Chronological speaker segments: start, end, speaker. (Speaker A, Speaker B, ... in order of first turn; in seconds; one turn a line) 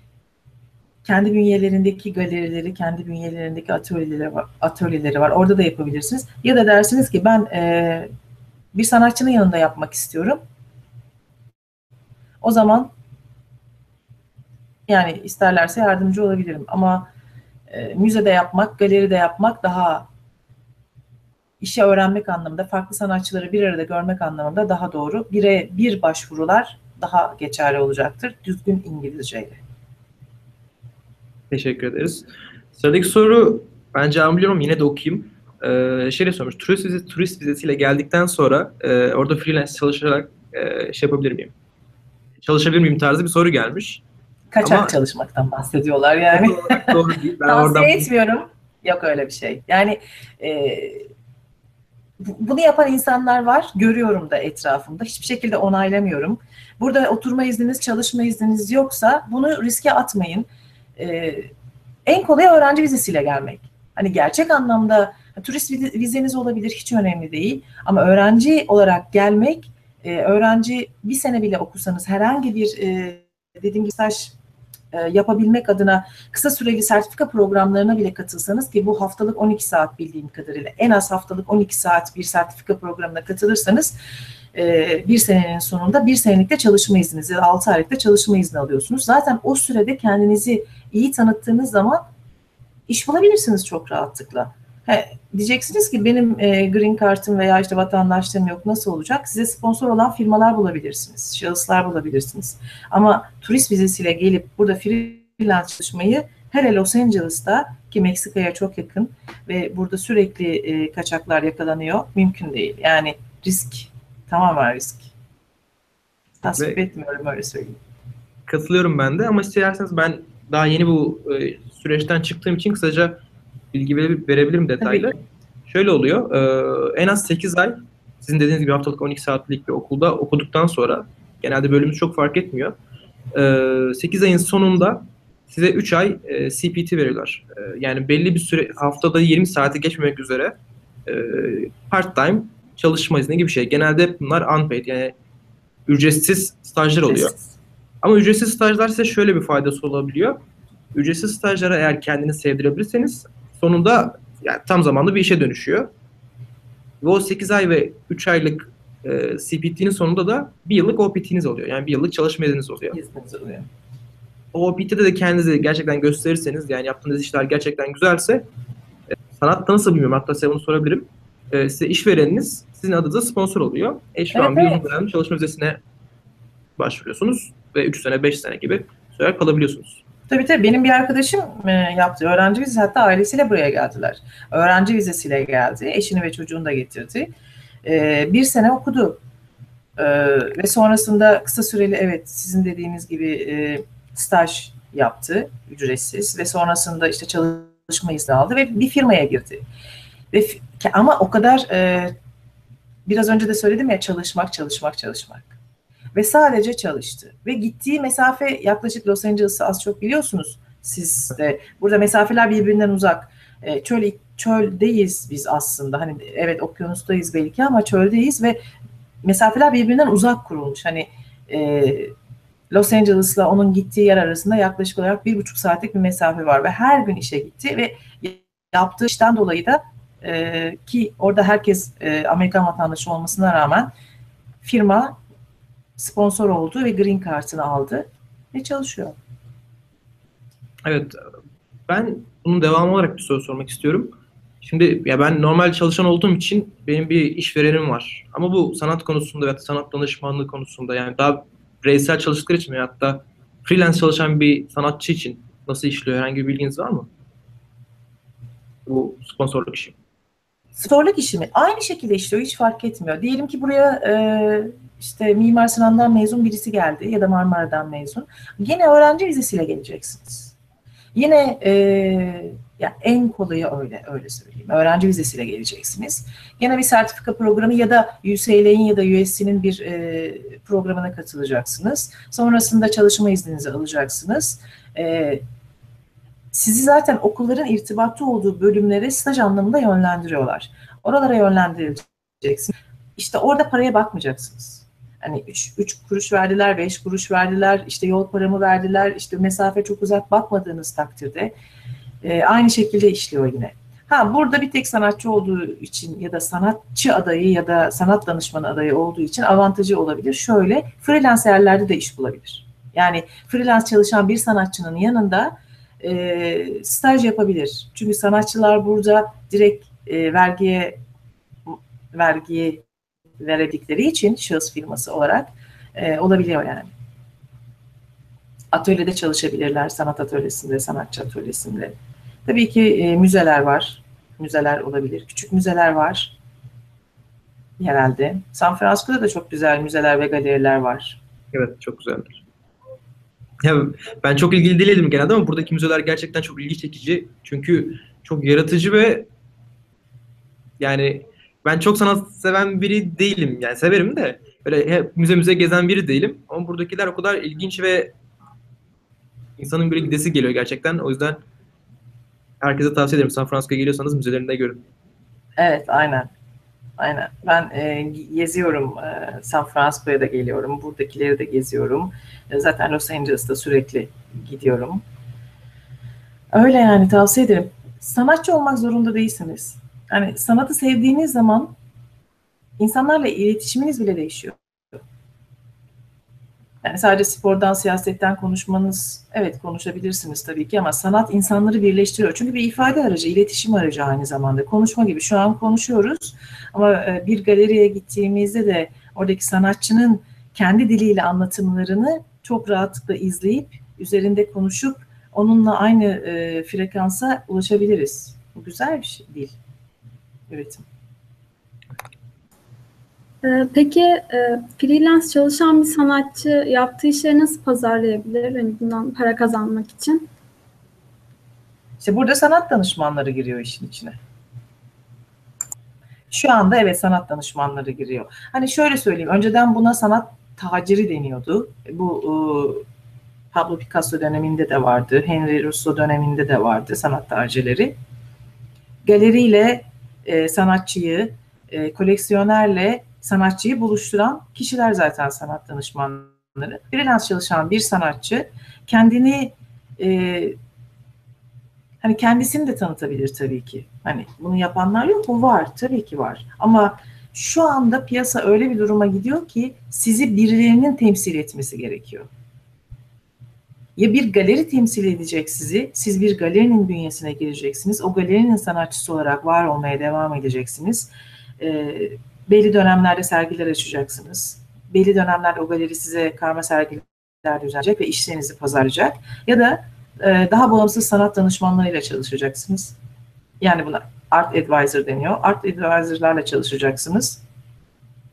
Speaker A: 1.0-8.1
Speaker A: 8.7-10.4
Speaker A: 12.4-12.9
Speaker A: 14.9-17.1
Speaker A: 17.7-20.1
Speaker A: 21.6-29.6
Speaker B: 31.5-41.5
Speaker B: 42.4-44.0
Speaker A: 44.5-51.1
Speaker B: 44.6-44.9
Speaker B: 46.3-48.1
Speaker A: 52.2-61.5
Speaker A: 62.0-74.3
Speaker A: 74.9-84.0
Speaker A: 84.5-92.0
Speaker A: 92.9-115.1
Speaker A: 116.4-117.8
Speaker B: 118.5-123.2
Speaker B: 123.7-132.8
Speaker A: 124.8-125.1
Speaker B: 133.3-145.1
Speaker B: 145.9-147.3
Speaker A: 147.1-147.6
Speaker B: 148.0-150.4
Speaker B: 150.9-155.9
Speaker B: 157.0-163.0
Speaker A: 162.9-163.7
Speaker B: 164.5-168.5
Speaker B: 169.3-175.8
Speaker A: 174.3-174.9
Speaker B: 176.8-180.0
Speaker A: 180.3-187.3
Speaker A: 187.8-189.2
Speaker A: 190.0-199.6
Speaker A: 200.3-202.1
Speaker A: 203.1-205.5
Speaker A: 206.1-218.6
Speaker A: 219.2-222.1
Speaker A: 222.7-233.9
Speaker A: 234.6-235.2
Speaker A: 236.0-239.2
Speaker B: 240.8-241.2
Speaker B: 241.9-257.1
Speaker B: 258.9-259.9
Speaker A: 260.8-270.5
Speaker A: 271.1-285.4
Speaker A: 286.5-301.5
Speaker A: 302.2-321.0
Speaker A: 321.7-322.8
Speaker A: 323.4-326.9
Speaker A: 328.7-336.4
Speaker A: 337.8-341.2
Speaker B: 341.5-342.4
Speaker B: 343.6-349.3
Speaker B: 350.8-358.1
Speaker B: 359.6-361.4
Speaker B: 362.6-364.8
Speaker A: 365.6-366.3
Speaker A: 367.0-375.0
Speaker A: 376.5-381.7
Speaker A: 382.8-385.0
Speaker A: 386.8-409.6
Speaker A: 410.5-410.9
Speaker C: 413.4-420.3
Speaker A: 422.0-424.2
Speaker A: 426.3-432.8
Speaker A: 433.5-437.9
Speaker A: 439.0-450.6
Speaker A: 452.0-462.3
Speaker A: 463.9-483.0
Speaker A: 483.6-487.4